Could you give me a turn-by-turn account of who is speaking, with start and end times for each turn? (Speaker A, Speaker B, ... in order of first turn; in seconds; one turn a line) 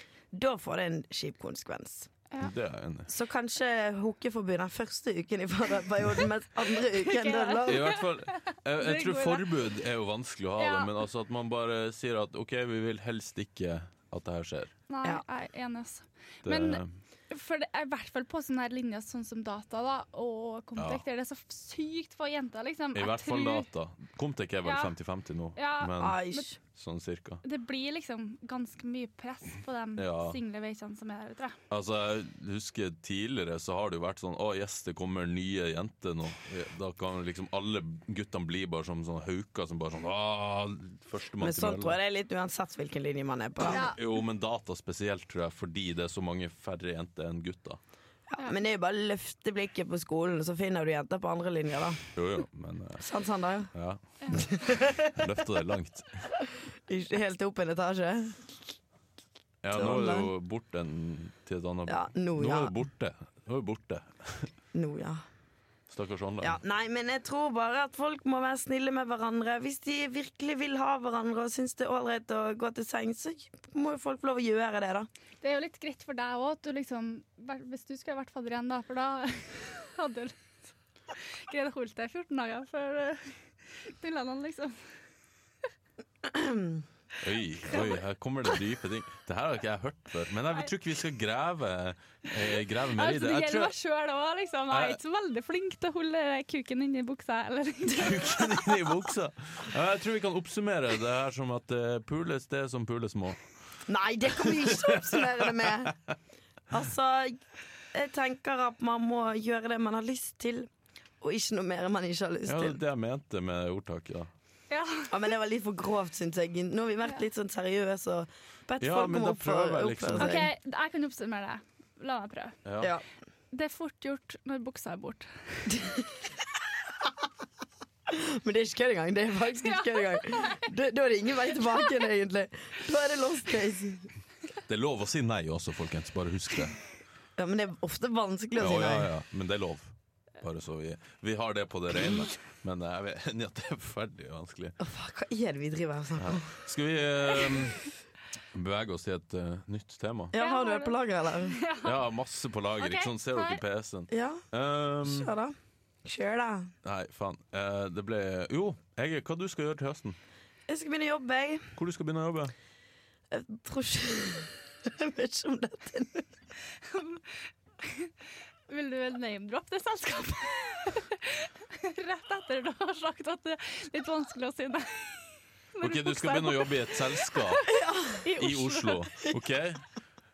Speaker A: 0.3-2.1
Speaker B: 2.4-3.1
Speaker A: 3.1-7.9
Speaker C: 6.9-9.5
Speaker B: 7.7-14.7
Speaker C: 10.6-10.9
Speaker C: 14.9-23.7
Speaker B: 16.4-16.9
Speaker B: 22.9-27.4
Speaker C: 24.6-24.9
Speaker C: 25.6-26.5
Speaker A: 26.0-26.6
Speaker C: 27.4-31.6
Speaker B: 30.0-30.4
Speaker B: 31.7-42.0
Speaker A: 41.4-43.9
Speaker C: 43.7-44.0
Speaker B: 43.7-47.8
Speaker A: 48.3-52.0
Speaker B: 52.1-53.0
Speaker A: 53.0-53.7
Speaker B: 53.7-56.3
Speaker A: 54.3-55.4
Speaker A: 56.4-58.6
Speaker B: 59.6-64.5
Speaker A: 59.7-60.3
Speaker A: 61.9-62.7
Speaker A: 64.7-65.2
Speaker B: 65.9-66.6
Speaker A: 66.4-75.1
Speaker C: 75.4-80.4
Speaker C: 81.5-84.8
Speaker A: 86.3-86.8
Speaker B: 87.2-93.7
Speaker C: 87.7-88.0
Speaker C: 93.0-98.4
Speaker B: 94.7-95.0
Speaker B: 98.0-103.5
Speaker A: 103.9-105.9
Speaker B: 104.4-105.7
Speaker A: 106.7-107.4
Speaker A: 107.9-110.7
Speaker A: 111.2-112.8
Speaker B: 112.5-114.3
Speaker C: 114.7-115.2
Speaker A: 115.1-120.5
Speaker B: 118.8-120.4
Speaker C: 120.2-122.6
Speaker B: 122.7-122.9
Speaker C: 123.5-125.7
Speaker A: 125.7-126.2
Speaker A: 128.1-134.1
Speaker C: 129.5-130.7
Speaker B: 134.7-136.8
Speaker A: 137.4-139.1
Speaker B: 138.6-144.8
Speaker A: 144.8-146.5
Speaker B: 146.2-147.8
Speaker B: 148.5-150.3
Speaker A: 150.3-151.6
Speaker C: 150.4-152.0
Speaker B: 151.8-155.3
Speaker C: 152.8-153.6
Speaker A: 154.1-154.4
Speaker A: 155.0-156.7
Speaker B: 156.8-160.2
Speaker A: 160.7-161.8
Speaker B: 161.8-162.5
Speaker A: 163.3-166.3
Speaker C: 166.9-167.2
Speaker C: 167.8-168.1
Speaker C: 168.7-179.1
Speaker B: 175.8-177.7
Speaker A: 177.7-178.2
Speaker B: 178.4-179.9